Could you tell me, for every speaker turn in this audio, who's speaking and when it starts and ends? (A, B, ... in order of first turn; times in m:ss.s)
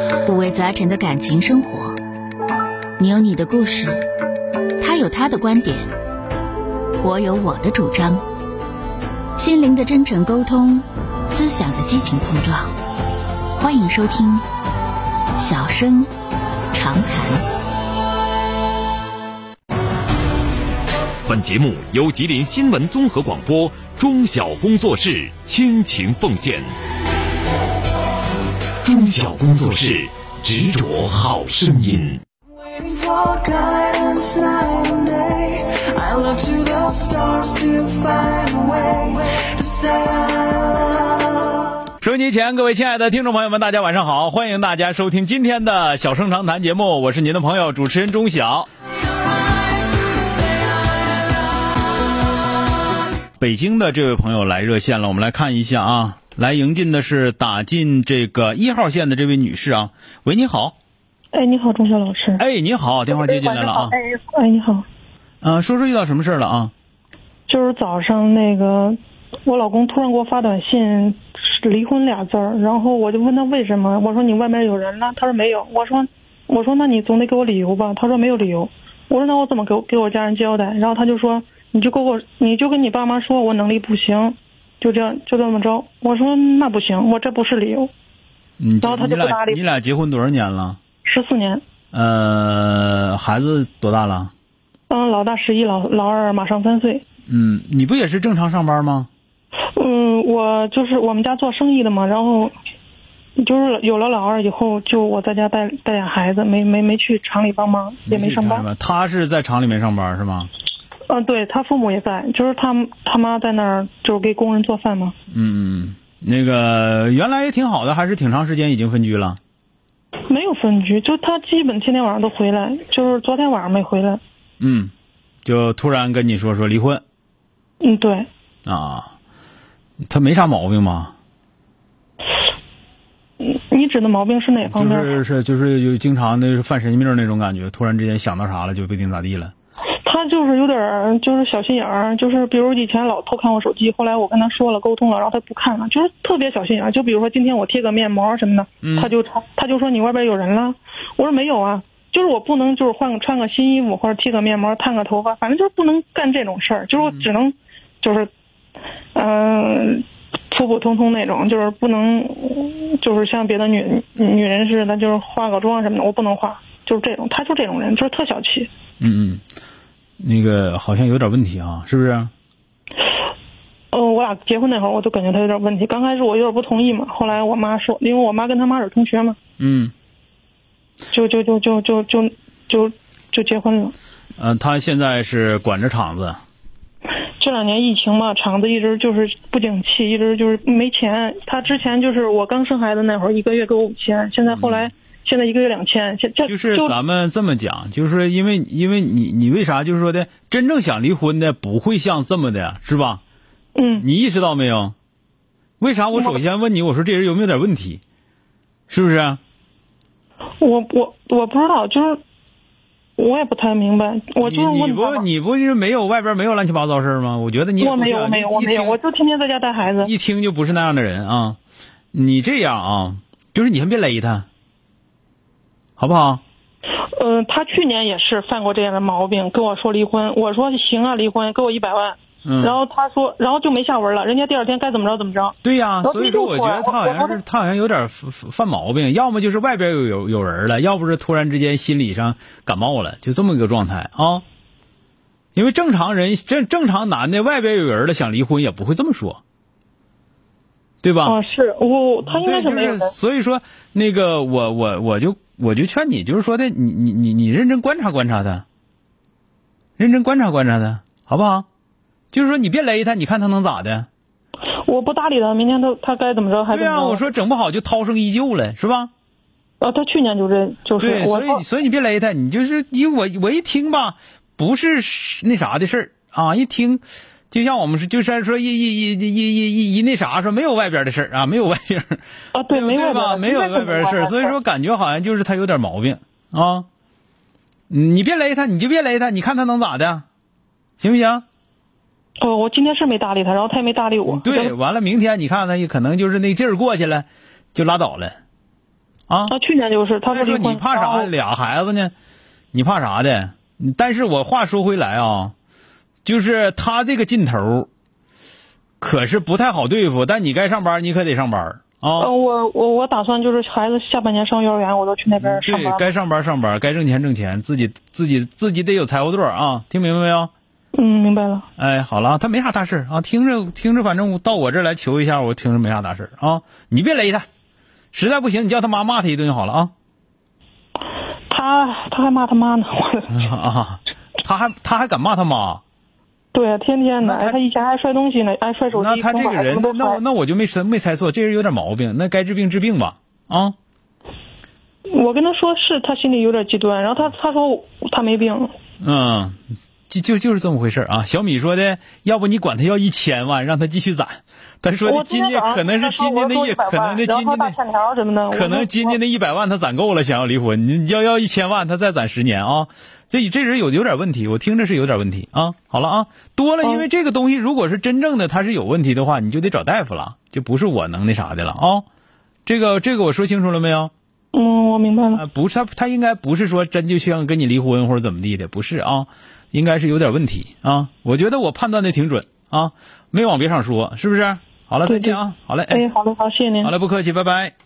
0:00.3-0:02.0 A
0:03.0-0:04.0 A
0:04.8-0:05.9 A
0:07.0-0:08.2 A
0:09.4-0:12.7 A
0:13.6-0:14.4 A
0:15.4-0:16.1 A
0:16.7-0:17.4 A
0:21.3-0:26.7 B
0:28.8-0:32.2 B
0:32.5-0:41.7 C
0:42.0-0:48.7 D
0:49.5-0:51.4 C
0:53.4-1:00.8 D
1:01.3-1:02.4 E
1:02.4-1:04.0 D
1:03.1-1:04.8 E
1:05.4-1:06.7 D
1:07.5-1:27.9 E
1:28.6-1:30.8 D
1:28.8-1:29.6 E
1:31.0-1:31.6 E
1:31.9-1:34.3 D
1:34.9-1:37.0 E
1:37.3-1:39.1 D
1:39.8-1:42.5 E
1:43.4-1:48.6 E
1:48.1-1:50.5 D
1:51.1-1:55.1 E
1:55.3-1:59.4 D
2:00.3-2:04.2 E
2:04.6-2:04.9 D
2:05.4-2:07.0 D
2:07.8-2:08.3 E
2:08.7-2:09.1 D
2:10.0-2:11.1 D
2:13.4-2:15.1 E
2:14.7-2:19.5 D
2:20.0-2:38.3 E
2:28.8-2:29.1 D
2:37.0-2:37.3 D
2:39.2-2:48.7 E
2:49.0-2:49.4 D
2:50.2-2:52.3 D
2:53.9-2:59.4 E
2:59.6-2:59.9 D
3:01.1-3:04.0 E
3:04.4-3:06.4 D
3:07.4-3:17.0 E
3:14.5-3:14.8 D
3:16.5-3:23.2 D
3:23.8-3:24.1 E
3:24.0-3:25.0 D
3:25.8-3:28.0 D
3:28.9-3:29.4 D
3:30.6-3:32.2 E
3:33.2-3:35.2 E
3:34.4-3:39.0 D
3:37.8-3:40.1 E
3:40.0-3:41.6 D
3:42.1-3:44.5 D
3:46.0-3:46.4 D
3:47.2-3:57.4 E
3:52.5-3:52.8 D
3:55.6-4:04.4 D
4:05.6-4:09.4 D
4:11.0-4:11.4 D
4:11.3-4:13.1 E
4:12.3-4:18.6 D
4:20.0-4:21.7 D
4:22.3-4:24.1 D
4:24.9-4:27.2 E
4:26.7-4:29.1 D
4:29.8-4:31.6 E
4:31.0-4:46.9 D
4:42.6-4:44.5 E
4:47.9-4:50.2 D
4:51.0-4:51.4 D
4:52.4-4:54.7 E
4:54.3-4:58.4 D
4:59.5-5:01.3 E
5:00.3-5:02.1 D
5:02.7-5:05.5 D
5:06.2-5:07.9 D
5:09.0-5:12.3 D
5:12.2-5:16.0 E
5:15.4-5:20.5 D
5:21.0-5:21.7 E
5:21.8-5:27.5 D
5:28.1-5:29.9 D
5:31.5-5:33.4 E
5:33.3-5:35.8 D
5:36.5-5:40.2 E
5:37.2-5:37.6 D
5:38.9-5:43.8 D
5:45.1-5:48.7 E
5:49.0-5:57.8 D
5:55.1-5:59.2 E
5:58.5-6:12.1 D
6:12.7-6:14.1 D
6:14.5-6:15.4 E
6:15.3-6:26.0 D
6:25.1-6:25.4 E
6:25.9-6:26.9 E
6:26.8-6:27.7 D